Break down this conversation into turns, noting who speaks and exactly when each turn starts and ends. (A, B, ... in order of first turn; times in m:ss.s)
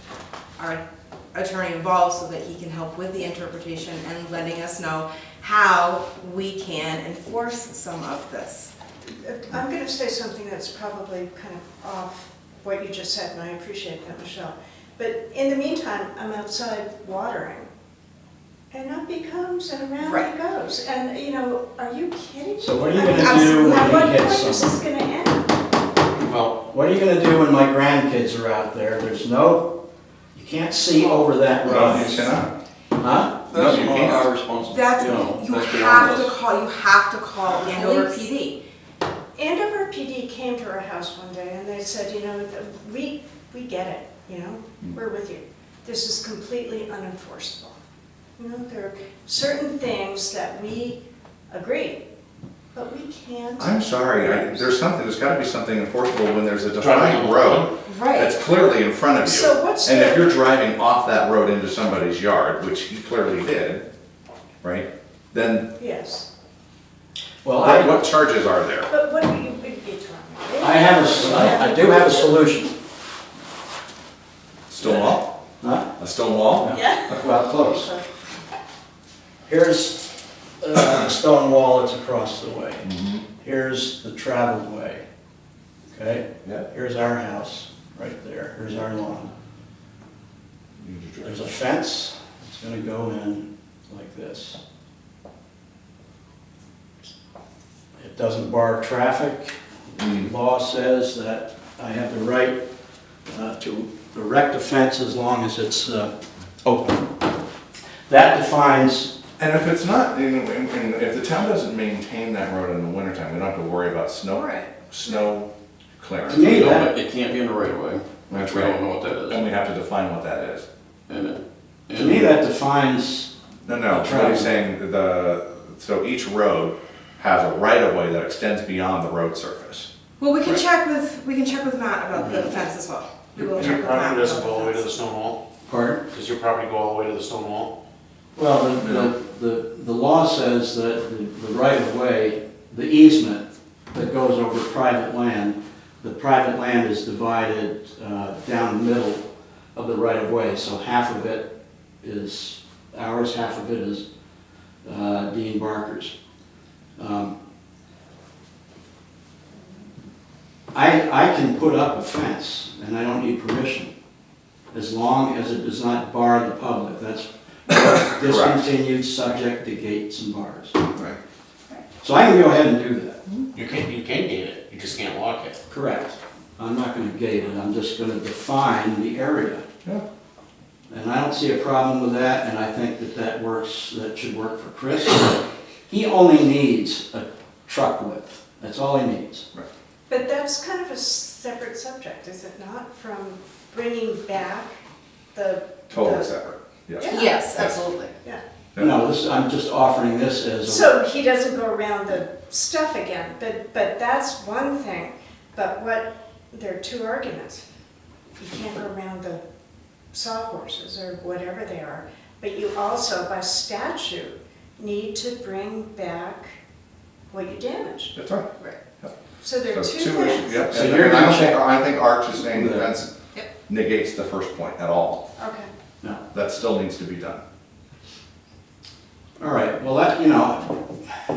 0:01.3-0:08.7 A
0:09.1-0:17.7 B
0:18.7-0:25.5 B
0:20.0-0:20.3 A
0:22.6-0:24.8 C
0:23.1-0:23.9 A
0:26.2-0:26.6 D
0:26.7-0:29.7 C
0:30.3-0:32.4 C
0:31.6-0:32.5 E
0:33.0-0:33.4 C
0:33.5-0:36.4 F
0:33.5-0:34.3 E
0:34.7-0:38.6 A
0:37.6-0:38.2 B
0:39.4-0:47.8 B
0:48.4-0:51.0 B
0:51.5-0:52.0 B
0:52.7-0:54.6 B
0:53.6-1:03.8 E
0:56.8-0:57.7 D
0:57.9-0:58.4 A
0:59.2-1:00.4 B
1:04.6-1:05.7 E
1:05.8-1:06.3 B
1:07.4-1:08.1 C
1:07.6-1:08.9 E
1:08.9-1:12.5 B
1:10.6-1:12.8 C
1:14.7-1:15.3 E
1:15.6-1:15.9 C
1:16.0-1:17.2 E
1:16.6-1:17.9 C
1:16.7-1:18.0 B
1:19.5-1:22.9 C
1:22.8-1:23.2 E
1:23.4-1:25.0 C
1:25.9-1:29.3 C
1:30.8-1:31.6 E
1:31.2-1:34.6 C
1:38.0-1:42.6 C
1:40.0-1:40.3 E
1:43.3-1:46.1 C
1:46.6-1:47.1 C
1:48.1-1:49.1 C
1:49.4-1:56.8 E
1:54.4-1:55.2 A
1:56.3-1:56.9 C
1:56.4-1:59.5 F
1:58.3-2:00.7 E
2:01.1-2:02.3 F
2:01.9-2:03.3 C
2:03.7-2:09.9 E
2:03.9-2:04.6 C
2:10.2-2:14.9 A
2:13.4-2:15.4 D
2:15.6-2:16.0 C
2:16.1-2:17.7 D
2:18.4-2:31.5 C
2:18.8-2:19.1 E
2:32.0-2:34.0 C
2:34.8-2:36.1 C
2:37.0-2:37.4 C
2:40.7-2:43.9 C
2:44.7-2:50.8 C
2:48.0-2:48.6 E
2:52.0-2:53.2 C
2:53.5-2:55.6 D
2:55.7-2:59.6 C
3:00.9-3:09.5 C
3:10.1-3:14.8 B
3:15.4-3:16.3 B
3:15.9-3:17.8 E
3:17.0-3:17.3 B
3:17.0-3:18.1 A
3:18.8-3:20.9 C
3:20.6-3:27.6 B
3:28.4-3:29.4 B
3:30.1-3:36.6 B
3:37.3-3:38.2 B
3:38.2-3:38.5 E
3:39.4-3:40.6 B
3:39.6-3:43.1 E
3:40.7-3:41.7 C
3:42.4-3:42.9 C
3:43.7-3:45.2 E
3:45.4-3:45.7 B
3:46.3-3:47.4 E
3:49.4-3:50.8 C